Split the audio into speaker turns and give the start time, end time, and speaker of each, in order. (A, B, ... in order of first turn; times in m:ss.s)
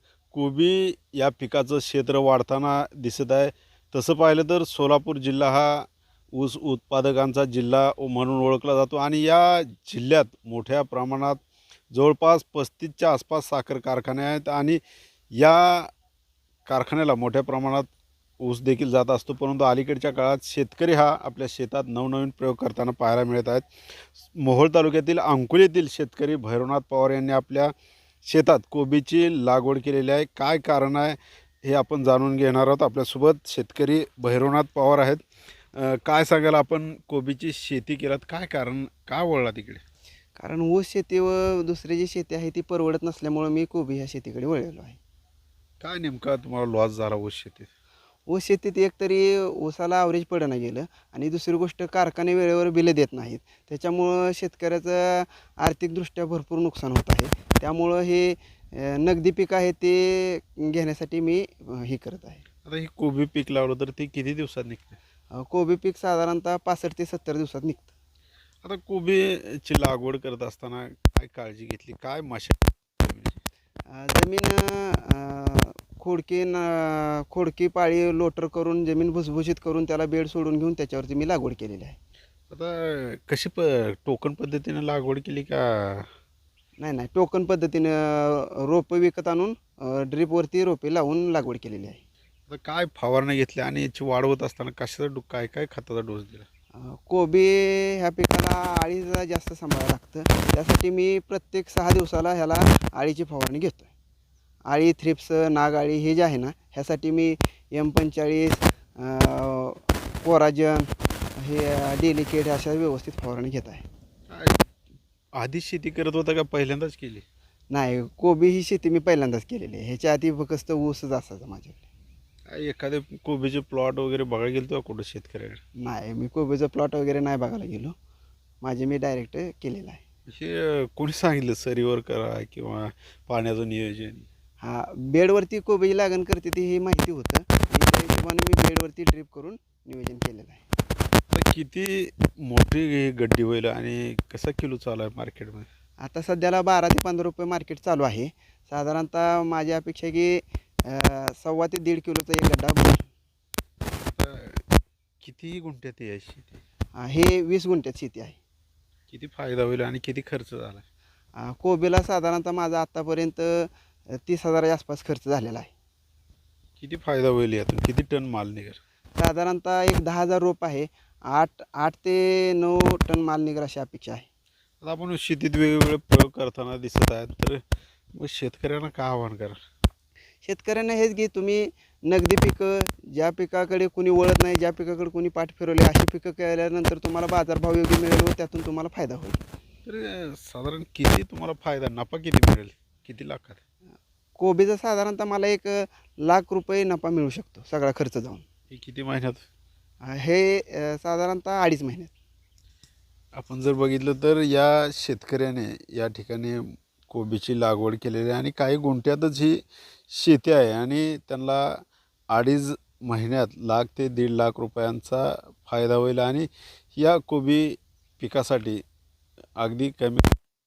0:00.3-0:14.8 A
0:15.3-0:15.9 A
0:16.7-0:23.7 A
0:24.2-0:39.8 A
0:40.4-0:45.0 B
0:45.8-0:47.7 A
0:48.3-1:02.4 B
1:02.6-1:05.0 A
1:05.3-1:07.9 B
1:08.6-1:13.4 A
1:13.9-1:22.0 B
1:22.5-1:26.1 A
1:26.8-1:32.0 B
1:32.5-1:36.5 A
1:36.7-1:43.9 B
1:44.7-1:53.9 B
1:54.3-1:54.6 A
1:55.4-1:57.2 A
1:57.7-2:01.8 B
2:02.5-2:05.6 A
2:05.8-2:07.9 B
2:08.6-2:10.0 B
2:10.3-2:14.3 A
2:14.6-2:20.6 B
2:21.3-2:25.7 A
2:26.0-2:33.1 B
2:34.1-2:34.6 A
2:35.2-2:36.6 A
2:36.9-2:38.4 B
2:39.1-2:40.8 A
2:41.3-2:45.7 B
2:46.8-2:48.8 A
2:49.2-2:54.2 B
2:54.8-2:57.6 A
2:58.1-2:59.6 A
3:00.4-3:09.4 B
3:09.8-3:13.6 A
3:14.4-3:18.4 B
3:18.7-3:19.4 A
3:20.0-3:22.1 B
3:23.4-3:38.8 A
3:39.6-3:40.3 A